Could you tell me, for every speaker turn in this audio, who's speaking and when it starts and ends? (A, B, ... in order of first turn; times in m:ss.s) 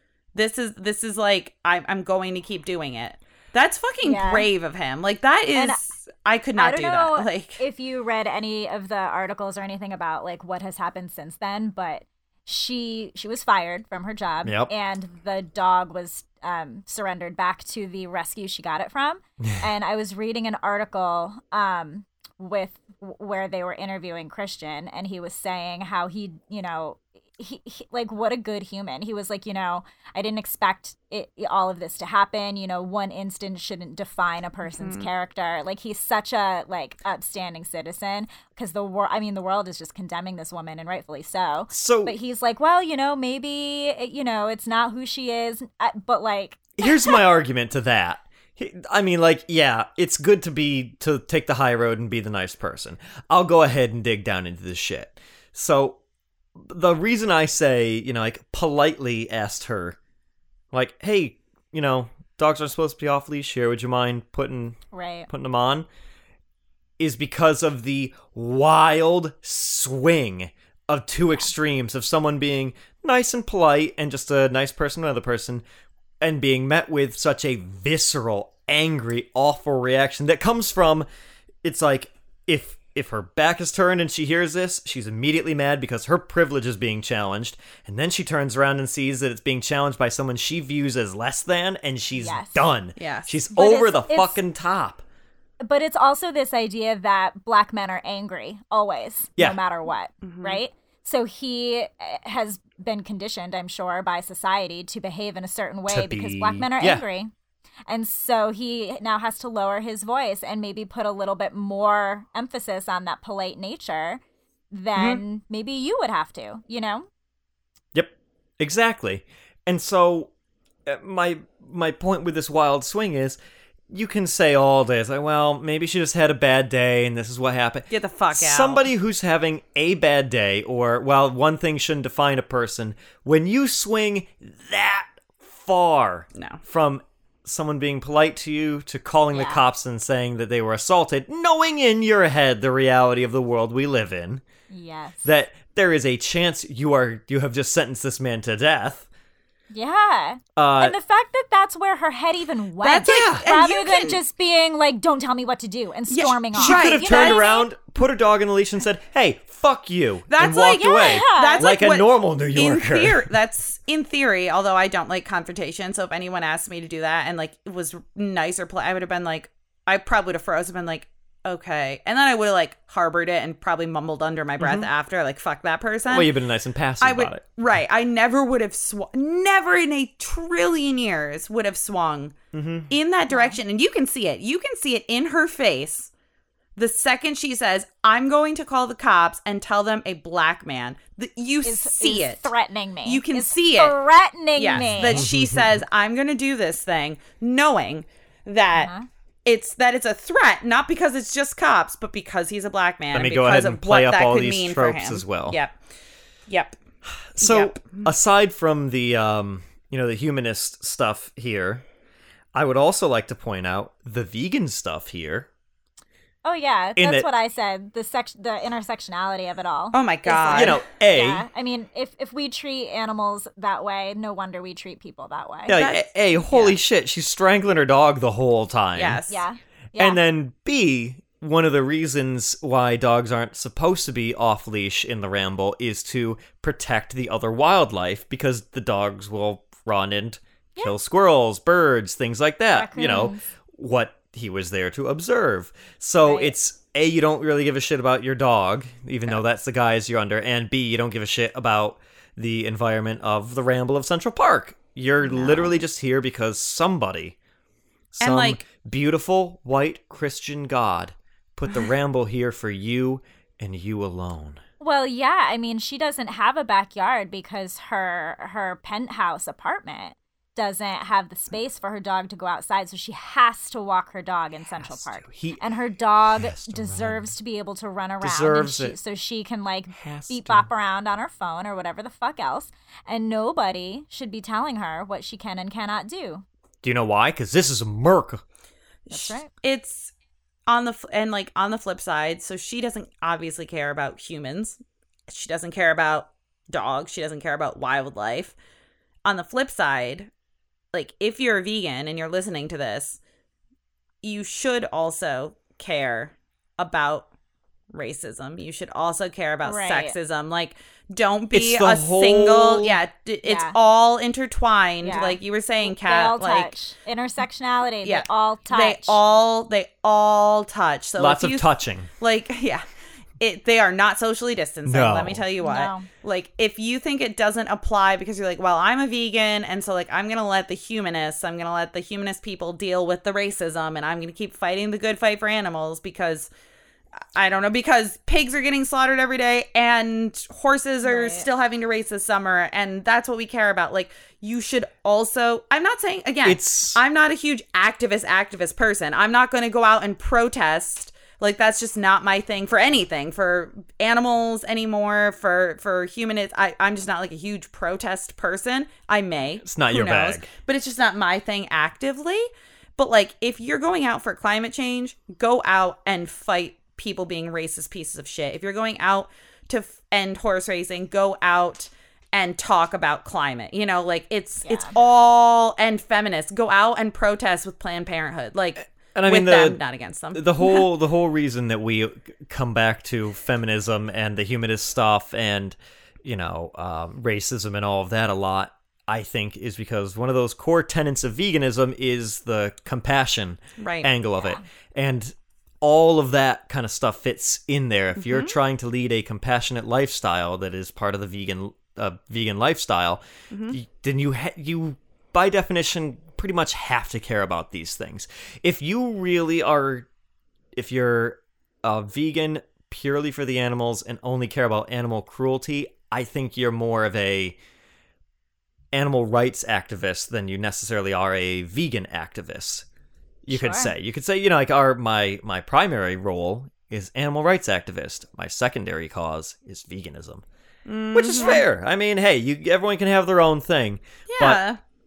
0:00.4-0:07.6 A
0:04.0-0:04.5 B
0:05.6-0:05.8 B
0:06.6-0:47.2 B
0:14.4-0:14.7 C
0:19.4-0:19.7 C
0:34.7-0:35.1 A
0:41.7-0:42.2 C
0:46.8-0:56.0 C
0:56.6-1:00.0 C
1:00.7-1:04.8 C
1:04.9-1:05.3 B
1:05.3-1:05.9 C
1:07.0-1:15.6 C
1:16.2-1:21.1 C
1:21.6-1:35.0 C
1:32.2-1:32.7 B
1:33.0-1:33.4 A
1:33.5-1:34.4 B
1:35.6-1:47.3 B
1:40.2-1:40.6 A
1:45.9-1:47.0 C
1:47.9-1:57.1 B
1:55.0-1:55.2 C
1:57.9-2:00.3 C
2:00.9-2:03.4 C
2:03.9-2:24.4 C
2:07.9-2:08.9 A
2:16.4-2:16.6 A
2:19.3-2:19.6 B
2:24.7-2:25.2 B
2:25.2-2:29.1 C
2:29.7-2:37.7 B
2:30.6-2:31.0 C
2:32.8-2:34.2 A
2:33.0-2:33.4 C
2:36.1-2:37.4 A
2:36.5-2:43.3 C
2:40.3-2:56.3 A
2:40.7-2:41.7 B
2:54.6-2:54.9 C
2:56.1-2:57.4 C
2:57.0-3:02.4 A
3:02.5-3:02.9 C
3:02.9-3:06.1 A
3:03.3-3:03.6 B
3:06.8-3:12.5 A
3:11.6-3:15.2 B
3:13.0-3:14.0 A
3:14.6-3:18.9 A
3:14.8-3:15.8 C
3:18.7-3:19.1 B
3:19.5-3:25.8 A
3:23.1-3:25.6 C
3:26.5-3:26.8 A
3:27.3-3:31.8 C
3:27.4-3:28.1 A
3:32.5-3:35.5 C
3:36.4-3:45.8 B
3:37.0-3:37.3 C
3:39.9-3:40.8 A
3:40.5-3:41.5 C
3:45.7-3:49.2 C
3:45.7-3:46.8 A
3:49.0-3:49.4 A
3:49.3-3:50.2 B
3:50.0-4:17.4 C
4:02.8-4:03.4 B
4:06.2-4:06.6 B
4:15.2-4:15.8 B
4:18.2-4:24.6 C
4:18.2-4:18.6 A
4:24.8-4:46.4 B
4:34.8-4:35.6 C
4:36.3-4:37.3 C
4:38.2-4:39.0 C
4:40.0-4:40.7 C
4:46.8-4:48.4 C
4:49.1-4:50.1 A
4:49.1-4:49.5 B
4:50.7-4:58.6 A
4:59.2-5:00.3 A
5:00.9-5:03.2 A
5:04.2-5:07.3 A
5:07.9-5:16.7 A
5:09.6-5:10.2 B
5:11.5-5:13.0 C
5:13.4-5:13.8 B
5:15.0-5:19.2 B
5:18.0-5:22.8 A
5:21.2-5:22.1 C
5:23.4-5:36.5 A
5:24.9-5:25.4 C
5:25.6-5:26.1 B
5:37.4-6:20.8 A
5:41.0-5:41.5 B
5:46.4-5:47.0 C
5:59.6-6:00.5 C
6:14.7-6:14.9 B
6:18.9-6:19.8 C
6:20.3-6:50.1 C
6:33.8-6:34.1 A
6:38.2-6:38.6 A
6:43.5-6:43.8 A
6:50.8-6:57.6 C
6:58.9-7:02.9 C
7:03.4-7:10.4 C
7:03.5-7:03.9 B
7:10.9-7:11.6 A
7:11.1-7:14.6 C
7:14.3-7:14.8 A